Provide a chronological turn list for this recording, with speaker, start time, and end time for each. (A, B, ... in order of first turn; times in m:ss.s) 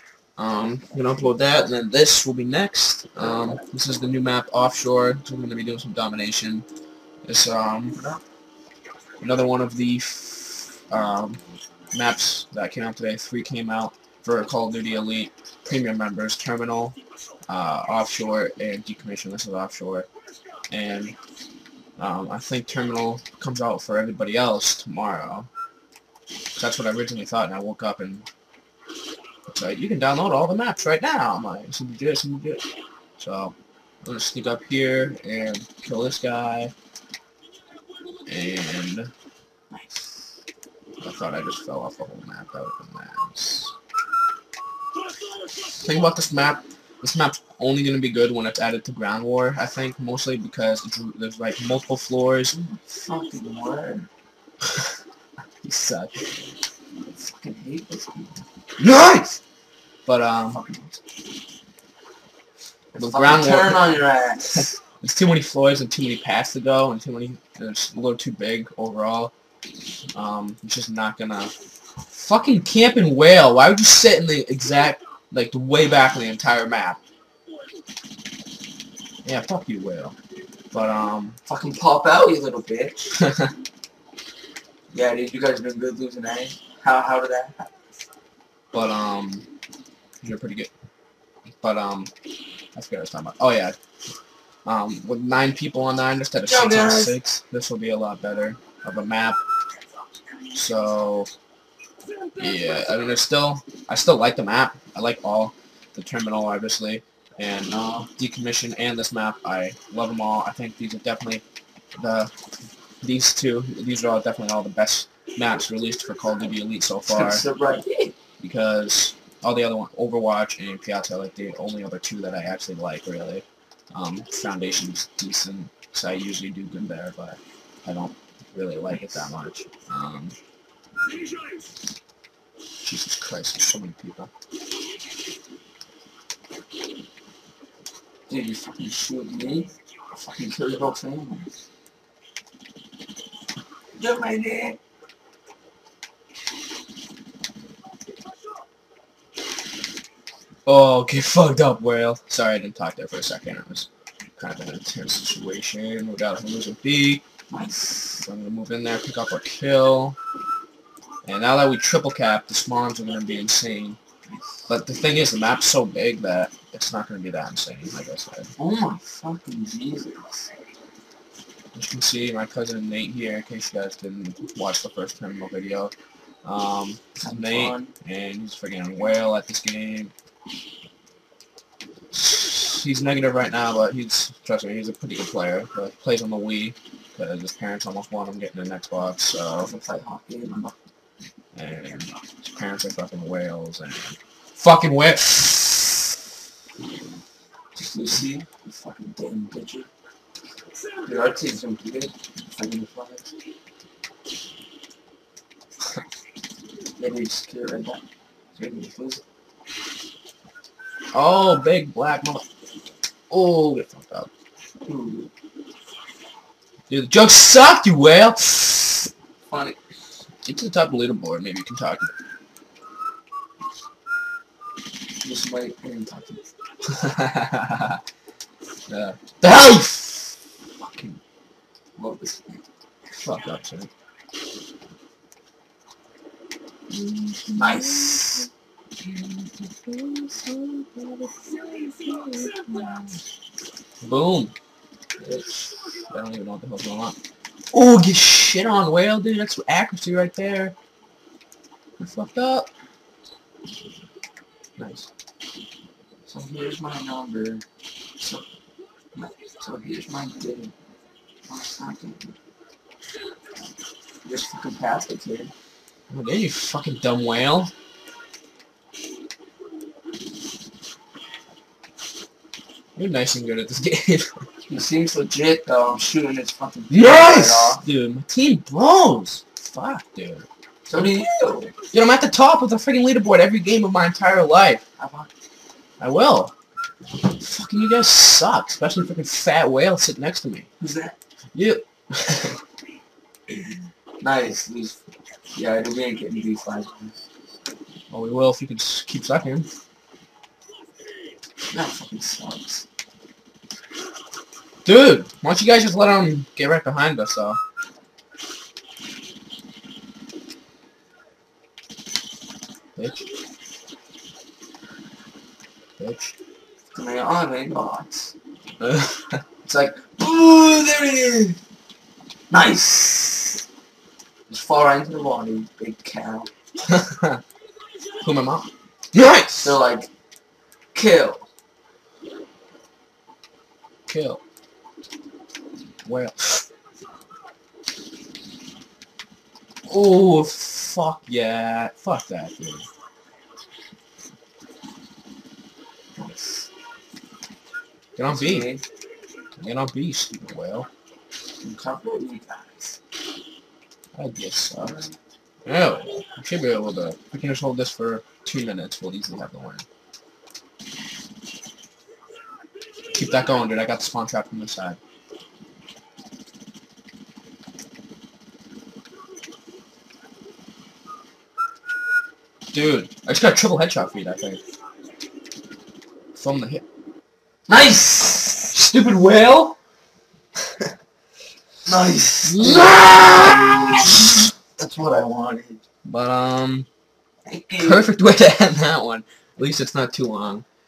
0:00.4-0:06.6 A
0:07.2-0:08.0 A
0:07.9-0:08.2 B
0:09.2-0:11.4 A
0:11.9-0:17.0 A
0:17.5-0:20.1 A
0:20.7-0:21.2 A
0:22.0-0:25.5 A
0:26.6-0:28.2 A
0:29.5-0:32.6 A
0:33.2-0:36.7 A
0:38.3-0:39.1 A
0:39.7-0:40.3 B
0:41.0-0:43.7 A
0:45.8-0:52.6 A
0:52.5-0:54.1 B
0:55.6-0:56.2 A
0:57.1-0:58.4 B
0:58.8-0:59.4 A
1:00.0-1:00.6 A
1:00.5-1:01.0 B
1:02.9-1:04.7 B
1:03.0-1:04.0 A
1:04.5-1:09.3 A
1:10.1-1:11.5 A
1:12.1-1:17.0 A
1:19.2-1:20.2 A
1:20.7-1:21.4 A
1:21.4-1:23.2 B
1:23.2-1:23.5 A
1:24.9-1:27.7 B
1:28.7-1:29.5 A
1:30.2-1:30.7 A
1:31.6-1:32.1 A
1:32.7-1:33.7 A
1:34.6-1:39.4 A
1:36.4-1:37.1 B
1:40.5-1:41.3 A
1:42.4-1:51.4 A
1:52.0-1:52.3 A
1:53.0-1:57.4 A
1:57.0-1:58.2 B
1:58.4-2:10.4 A
2:12.8-2:14.3 A
2:18.3-2:21.5 B
2:24.0-2:24.8 B
2:30.6-2:37.2 A
2:37.5-2:38.2 B
2:38.2-2:40.2 A
2:41.2-2:44.0 A
2:44.2-2:44.7 B
2:44.7-2:48.5 A
2:48.6-2:50.5 B
2:51.7-2:55.9 A
2:56.4-3:00.1 A
2:57.2-2:57.9 B
3:02.1-3:09.7 A
3:09.6-3:10.8 B
3:11.5-3:16.1 A
3:17.7-3:19.9 B
3:21.0-3:23.3 B
3:27.0-3:29.2 B
3:31.1-3:32.4 A
3:33.3-3:34.3 A
3:34.8-3:35.3 B
3:36.9-3:39.1 A
3:39.4-3:39.8 B
3:40.4-3:42.1 A
3:45.2-3:46.4 B
3:46.9-3:48.0 A
3:48.9-3:51.2 A
3:52.0-3:52.6 B
3:53.1-3:53.9 A
3:56.9-3:58.5 A
3:57.5-3:58.5 B
3:59.0-4:03.0 A
4:04.0-4:04.5 A
4:05.2-4:05.7 B
4:06.1-4:07.2 A
4:07.7-4:10.7 A
4:12.0-4:12.7 A
4:14.8-4:15.1 A
4:16.3-4:17.6 B
4:18.2-4:18.5 B
4:19.1-4:20.7 B
4:21.4-4:22.4 B
4:24.2-4:25.5 B
4:26.1-4:27.7 A
4:33.0-4:34.5 A
4:34.7-4:37.8 B
4:36.9-4:40.4 A
4:40.9-4:41.7 B
4:41.9-4:44.8 A
4:45.0-4:45.3 B
4:46.0-4:46.5 A
4:47.3-4:50.7 A
4:50.8-4:51.2 B
4:51.5-4:52.6 A
4:54.2-4:55.0 B
4:55.5-4:57.2 B
4:58.1-4:59.7 A
5:01.7-5:02.8 B
5:04.8-5:07.6 A
5:13.0-5:13.2 A
5:16.0-5:16.3 A
5:16.9-5:18.3 B
5:18.8-5:19.4 A
5:19.6-5:21.6 B
5:22.5-5:23.6 B
5:24.5-5:26.5 B
5:26.9-5:27.4 A
5:28.2-5:29.8 A
5:29.6-5:30.1 B
5:30.9-5:31.4 B
5:34.1-5:34.4 A
5:36.0-5:36.6 A
5:39.8-5:42.8 A
5:46.1-5:46.7 B
5:48.2-5:48.7 A
5:48.3-5:48.8 B
5:49.6-5:50.9 A
5:51.6-5:53.0 B
5:54.1-5:55.0 A
5:54.8-5:55.1 B
5:55.6-5:59.8 A
6:03.1-6:05.0 A
6:12.7-6:14.6 A
6:16.3-6:16.8 A
6:17.7-6:18.7 B
6:18.7-6:19.8 A
6:21.8-6:24.0 B
6:22.4-6:23.9 A
6:24.8-6:25.8 B
6:26.0-6:26.9 A
6:27.4-6:28.1 B
6:27.8-6:30.6 A